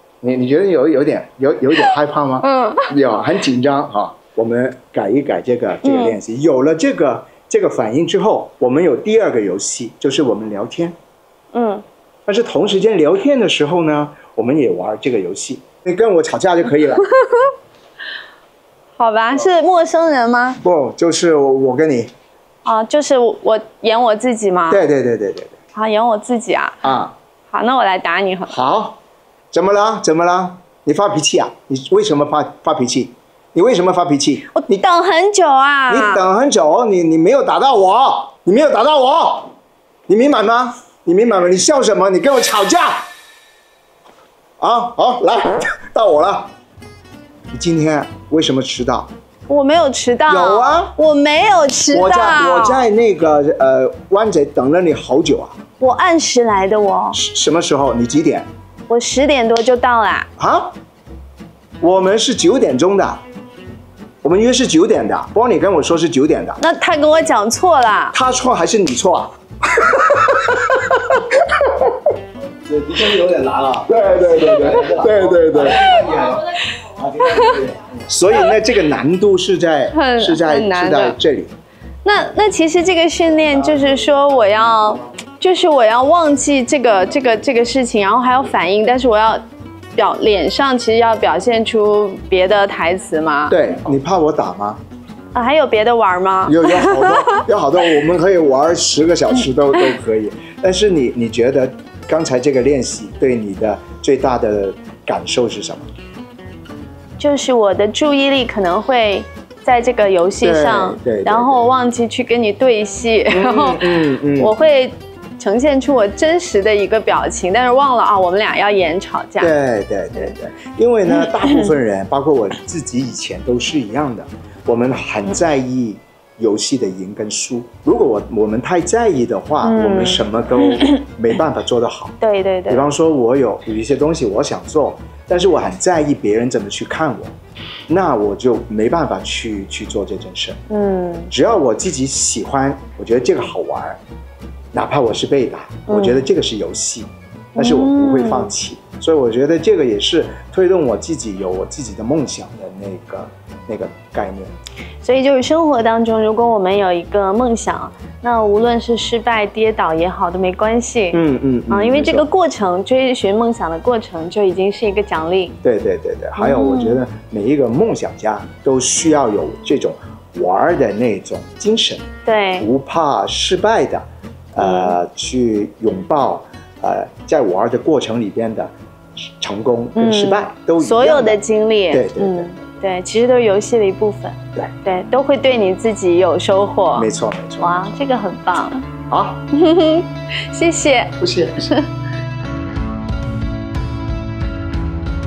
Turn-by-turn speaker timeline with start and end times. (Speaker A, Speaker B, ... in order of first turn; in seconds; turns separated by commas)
Speaker A: 0.2-10.9, Speaker B: 2.4-2.9, Speaker B: 5.8-6.2, Speaker B: 11.5-11.8, Speaker A: 12.3-17.1, Speaker B: 19.0-20.6, Speaker A: 20.6-22.1, Speaker B: 22.6-24.8, Speaker A: 24.7-25.5, Speaker B: 25.7-26.8, Speaker A: 26.8-27.1, Speaker B: 27.5-28.6, Speaker A: 28.5-29.0, Speaker A: 29.5-34.8, Speaker B: 34.5-36.3, Speaker A: 35.9-39.5, Speaker A: 40.1-43.1, Speaker A: 44.6-46.5, Speaker A: 47.5-49.1, Speaker B: 49.5-52.9, Speaker A: 50.3-51.0, Speaker A: 51.9-55.5, Speaker B: 55.8-57.2, Speaker A: 57.1-58.5, Speaker B: 58.9-60.3, Speaker A: 60.4-60.8, Speaker A: 61.8-63.2, Speaker A: 64.2-66.6, Speaker B: 66.6-68.2, Speaker A: 68.1-71.2, Speaker C: 72.7-76.4, Speaker A: 73.8-76.2, Speaker B: 75.7-77.6, Speaker C: 77.3-77.6, Speaker A: 78.0-81.5, Speaker B: 79.9-81.2, Speaker B: 82.0-89.4, Speaker B: 90.0-93.6, Speaker A: 93.5-94.8, Speaker B: 95.3-97.4, Speaker A: 96.5-105.9, Speaker B: 107.2-119.5, Speaker A: 110.4-111.7, Speaker A: 113.3-114.5, Speaker A: 119.4-132.2, Speaker B: 121.1-121.7, Speaker B: 129.6-131.0, Speaker B: 132.2-132.9, Speaker A: 132.7-137.3, Speaker A: 137.9-140.6, Speaker B: 140.7-141.3, Speaker A: 141.3-144.0, Speaker A: 144.7-154.5, Speaker B: 145.9-146.3, Speaker B: 147.6-148.6, Speaker B: 155.0-165.6, Speaker A: 161.1-162.3, Speaker A: 165.6-172.1, Speaker B: 166.4-167.0, Speaker B: 172.2-172.7, Speaker A: 172.6-178.7, Speaker B: 174.6-175.0, Speaker A: 179.4-181.4, Speaker B: 180.0-187.1, Speaker A: 181.9-182.5, Speaker A: 187.0-187.9, Speaker B: 187.6-188.9, Speaker A: 189.1-189.4, Speaker B: 189.5-191.9, Speaker A: 191.2-191.7